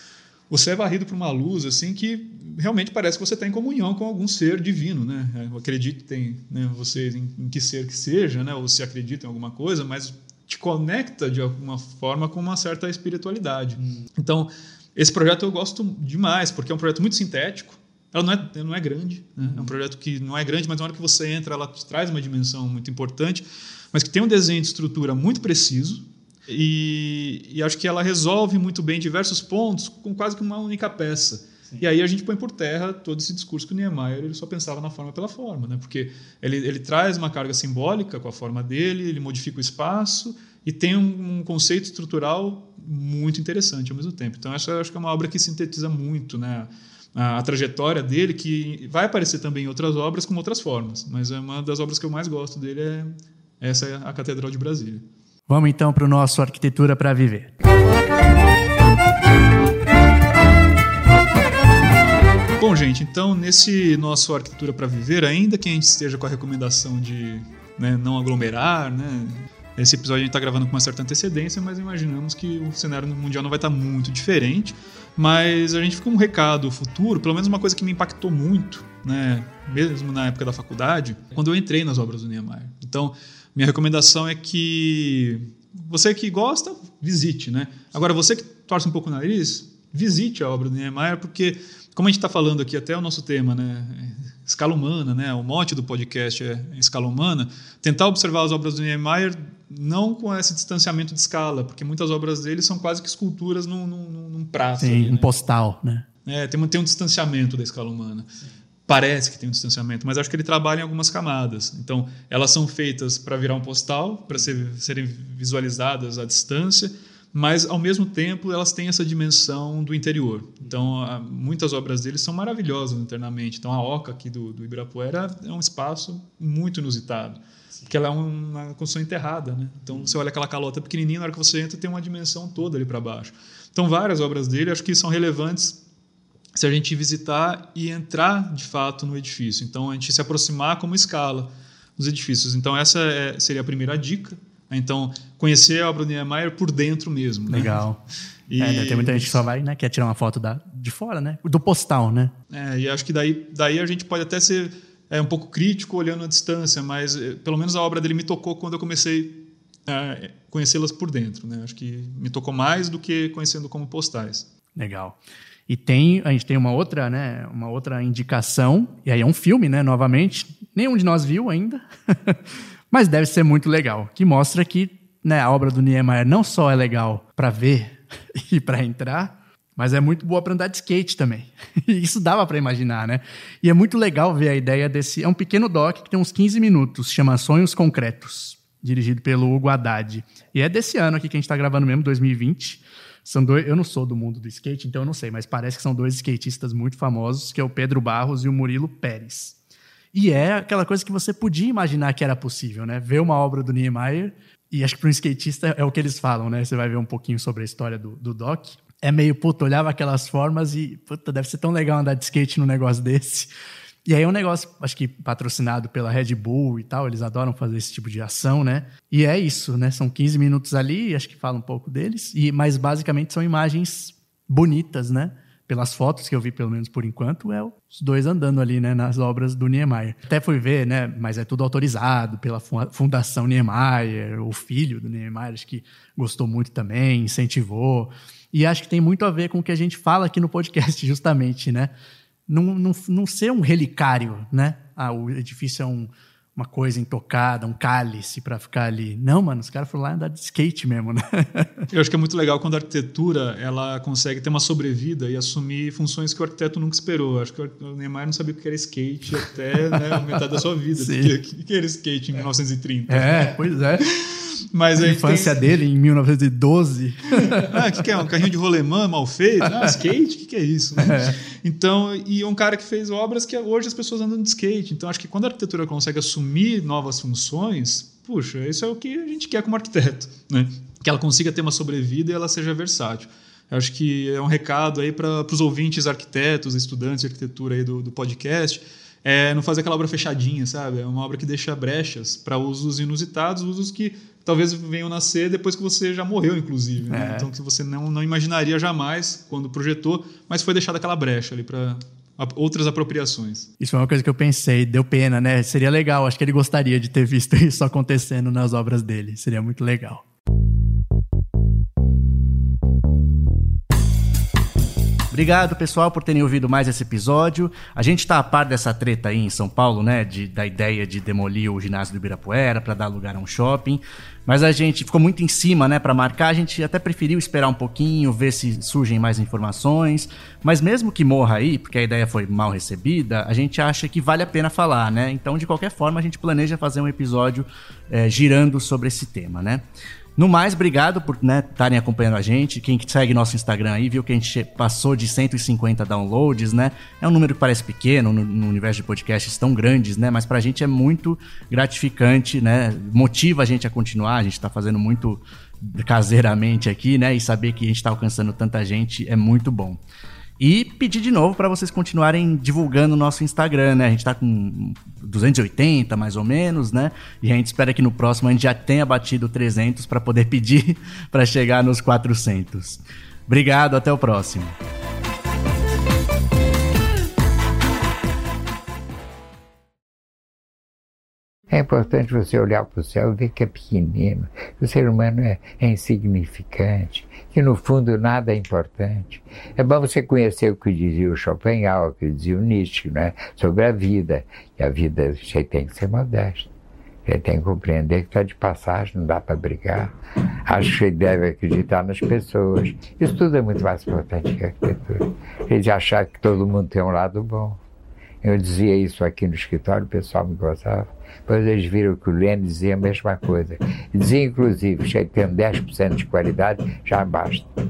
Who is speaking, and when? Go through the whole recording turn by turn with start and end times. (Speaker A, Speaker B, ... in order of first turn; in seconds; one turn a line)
Speaker A: 0.5-55.0
Speaker B: 55.5-57.5
Speaker A: 62.6-105.3
Speaker B: 104.8-106.0
Speaker A: 106.2-108.3
Speaker A: 108.9-135.8
Speaker A: 136.6-147.8
Speaker B: 147.5-148.0
Speaker A: 148.5-149.4
Speaker B: 148.6-152.3
Speaker A: 152.5-164.5
Speaker B: 164.8-199.6
Speaker B: 200.1-213.5
Speaker B: 214.0-241.9
Speaker B: 242.5-251.8
Speaker A: 251.9-265.8
Speaker B: 260.9-261.3
Speaker B: 263.1-264.1
Speaker B: 265.0-268.0
Speaker A: 267.4-303.7
Speaker B: 269.6-270.0
Speaker B: 271.0-271.4
Speaker B: 297.1-297.5
Speaker B: 303.8-310.2
Speaker B: 315.3-339.8
Speaker B: 340.4-360.0
Speaker B: 360.6-374.7
Speaker C: 381.7-396.7
Speaker C: 397.2-400.1
Speaker C: 400.7-407.8
Speaker C: 408.4-417.7